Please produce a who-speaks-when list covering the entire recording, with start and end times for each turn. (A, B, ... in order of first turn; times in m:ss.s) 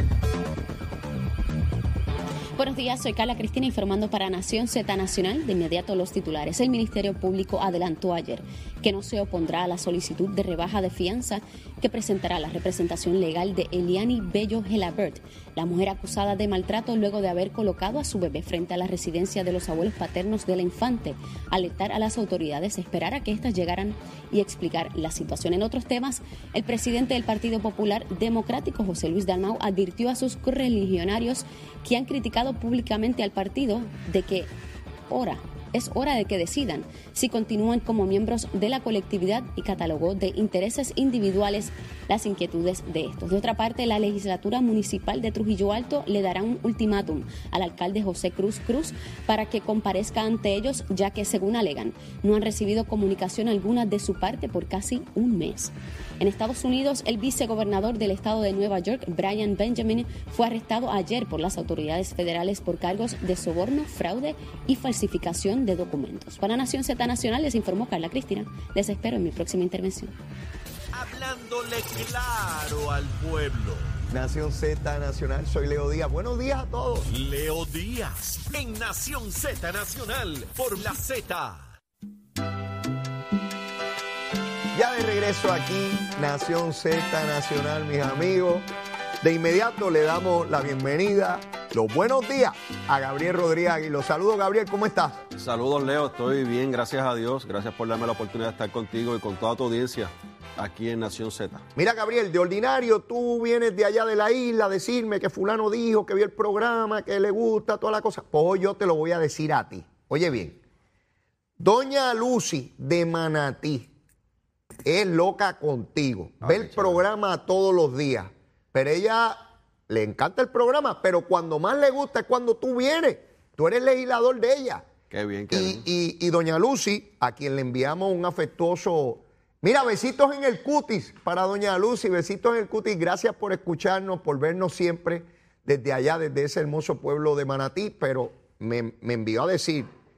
0:02.6-0:34.5 A
0:35.1-1:10.1 A
1:10.9-1:14.0 B
1:14.1-1:17.1 C
1:17.1-1:21.7 B
1:24.7-1:28.7 C
1:29.2-1:35.2 C
1:35.4-1:41.6 D
1:41.8-1:50.6 C
1:51.6-1:53.9 C
1:54.8-2:04.9 C
1:56.4-1:57.0 D
2:05.1-2:05.8 D
2:05.5-2:19.9 C